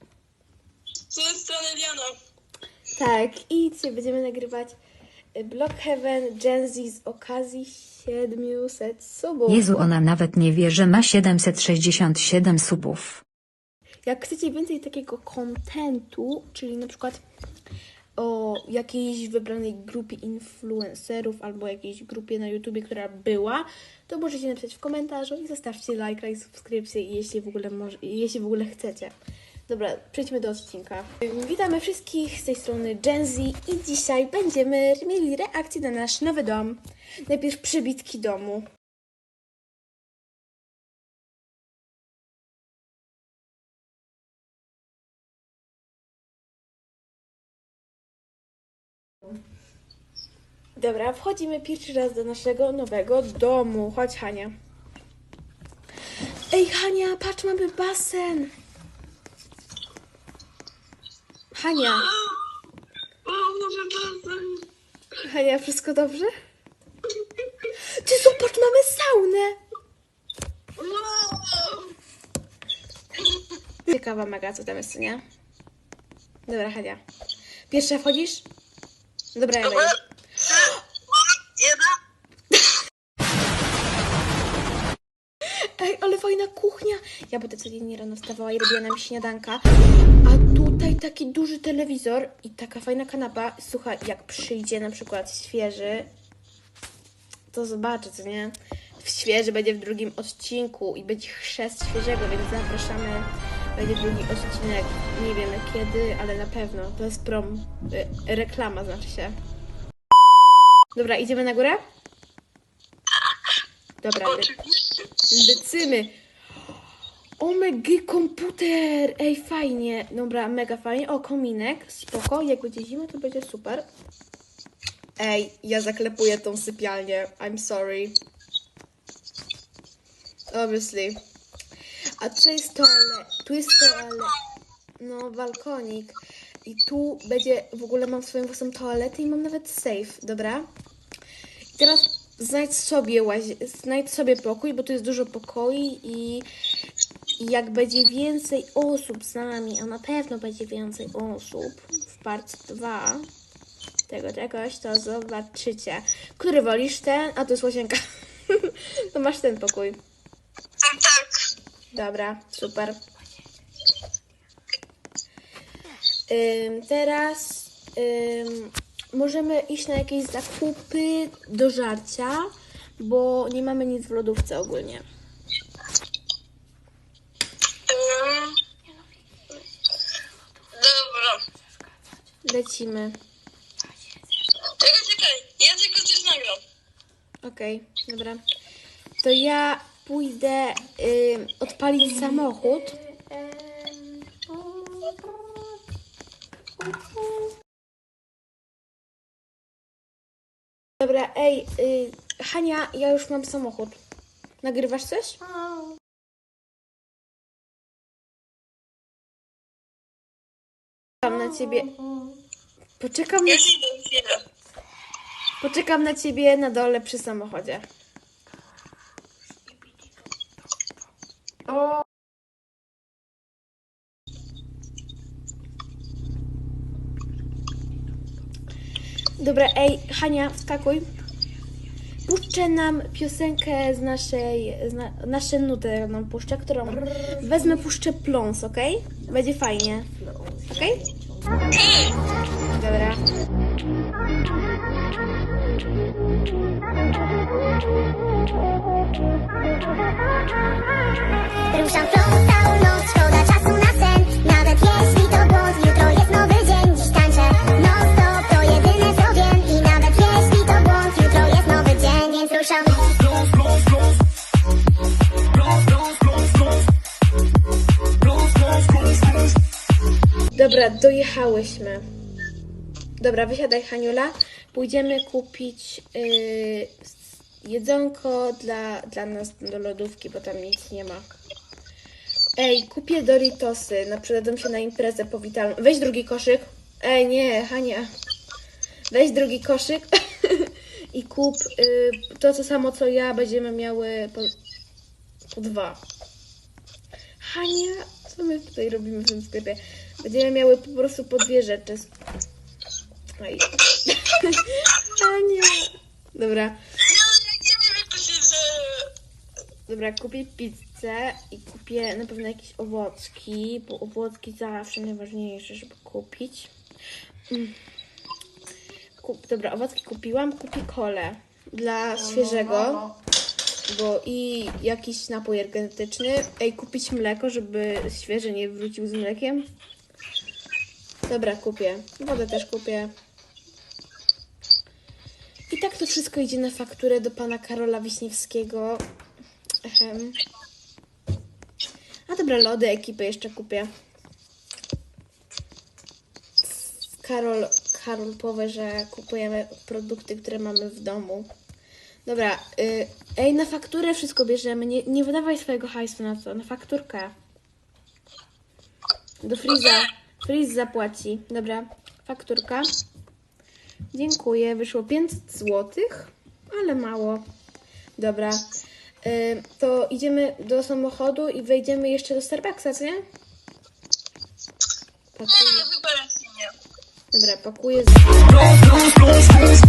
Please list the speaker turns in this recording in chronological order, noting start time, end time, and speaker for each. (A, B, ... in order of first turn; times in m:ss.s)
0:01.1-0:02.2 A
0:03.0-0:04.8 B
0:05.4-0:09.6 B
0:09.5-0:13.2 C
0:14.1-0:17.2 B
0:18.2-0:29.1 B
0:29.7-0:38.7 B
0:50.8-0:54.5 B
0:56.5-0:58.5 B
1:01.5-1:02.1 B
1:03.2-1:04.6 A
1:05.2-1:06.3 B
1:07.8-1:09.6 B
1:10.8-1:11.9 A
1:13.9-1:15.2 B
1:16.5-1:17.0 B
1:17.7-1:18.5 B
1:19.3-1:20.0 B
1:20.6-1:22.0 A
1:25.6-1:29.6 B
1:30.2-1:36.1 B
1:37.5-1:49.4 B
1:50.9-1:51.8 B
1:54.0-1:54.6 B
1:55.3-1:56.2 B
1:57.4-2:03.9 B
2:05.2-2:08.2 B
2:10.5-2:11.2 B
2:12.2-2:14.4 B
2:15.0-2:20.7 B
2:21.8-2:26.5 B
2:27.4-2:33.3 B
2:34.1-2:40.0 B
2:40.9-2:41.4 A
2:41.9-2:43.0 B
2:46.3-2:55.0 B
2:57.9-2:58.6 A
3:00.8-3:01.4 A
3:02.4-3:03.2 B
3:04.8-3:06.6 A
3:07.4-3:08.4 B
3:09.2-3:14.3 B
3:21.0-3:24.0 B
3:24.6-3:25.4 B
3:31.2-3:32.0 B
3:33.0-3:33.7 B
3:33.5-3:34.4 A
3:35.6-3:37.8 B
3:49.4-3:51.0 B
3:52.3-4:00.1 B
4:00.6-4:01.0 B
4:01.8-4:02.2 A
4:02.7-4:03.2 B
4:11.7-4:23.2 D
4:30.5-4:32.1 B
4:33.2-4:41.3 B
4:42.6-4:48.1 B
4:49.1-4:54.6 B
4:55.5-4:56.0 B
4:57.4-5:02.1 B
5:03.4-5:06.8 B
5:07.1-5:09.1 A
5:09.9-5:16.7 B
5:17.5-5:17.8 B
5:19.2-5:23.1 B
5:23.9-5:29.7 B
5:31.3-5:33.1 B
5:35.7-5:39.0 B
5:39.8-5:40.4 B
5:42.3-5:43.9 B
5:47.2-5:51.5 B
5:52.2-5:57.3 B
5:59.4-6:02.9 B
6:04.1-6:07.4 B
6:08.2-6:08.7 B
6:09.2-6:13.2 B
6:15.4-6:15.9 B
6:15.6-6:16.8 A
6:17.3-6:18.4 B